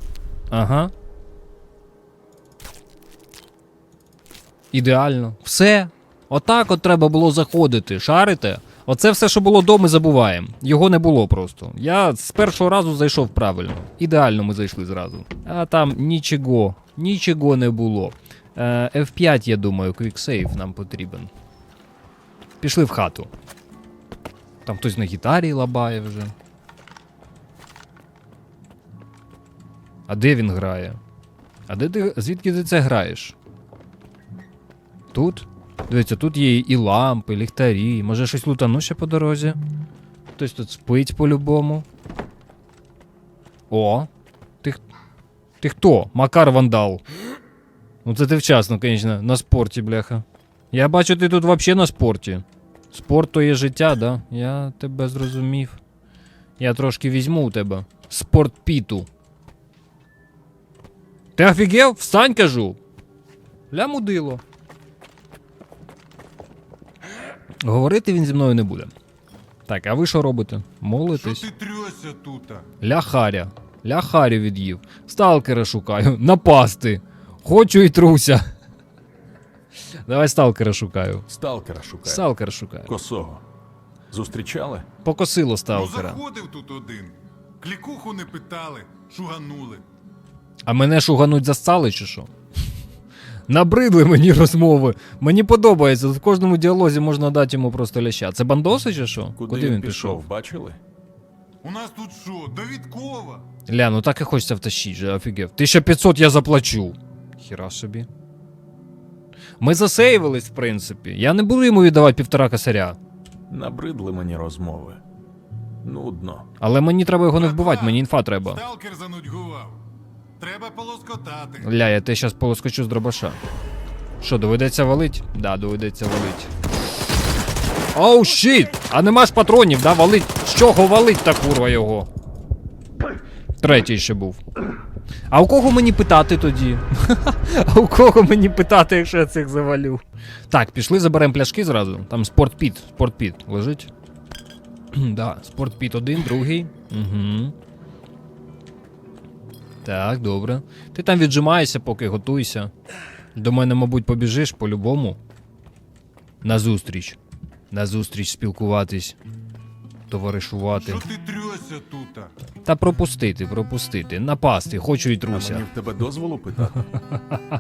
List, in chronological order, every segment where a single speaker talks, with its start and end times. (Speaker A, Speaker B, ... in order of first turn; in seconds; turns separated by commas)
Speaker A: 0.5-0.9, Speaker A: 4.7-21.3, Speaker A: 22.6-23.3, Speaker A: 24.6-26.3, Speaker A: 30.1-31.0, Speaker A: 31.7-33.3, Speaker A: 35.1-39.6, Speaker A: 40.4-41.8, Speaker A: 43.7-44.1, Speaker A: 45.6-47.0, Speaker A: 48.0-55.8, Speaker A: 56.6-59.1, Speaker A: 61.4-62.8, Speaker A: 63.7-64.4, Speaker A: 67.6-68.9, Speaker A: 69.7-71.5, Speaker B: 71.2-72.6, Speaker A: 72.8-78.4, Speaker A: 80.0-81.2, Speaker C: 81.3-82.3, Speaker A: 82.0-82.9, Speaker C: 82.8-83.4, Speaker C: 84.1-84.9, Speaker A: 85.0-86.2, Speaker B: 85.7-89.8, Speaker A: 90.7-92.3, Speaker A: 93.5-100.2, Speaker C: 99.3-100.8, Speaker B: 101.6-103.4, Speaker A: 103.7-108.1, Speaker A: 109.6-113.0, Speaker C: 113.5-115.0, Speaker C: 115.8-116.5, Speaker A: 116.6-118.6, Speaker B: 117.4-119.8, Speaker B: 120.4-121.7, Speaker A: 121.6-123.4, Speaker A: 124.2-126.5, Speaker A: 127.9-132.1, Speaker A: 133.6-134.4, Speaker A: 135.3-143.9, Speaker A: 144.9-147.5, Speaker A: 149.8-152.7, Speaker A: 153.3-155.2, Speaker A: 156.4-157.2, Speaker A: 157.7-159.2, Speaker A: 160.1-161.0, Speaker B: 160.8-162.3, Speaker A: 162.6-165.7, Speaker C: 165.3-166.8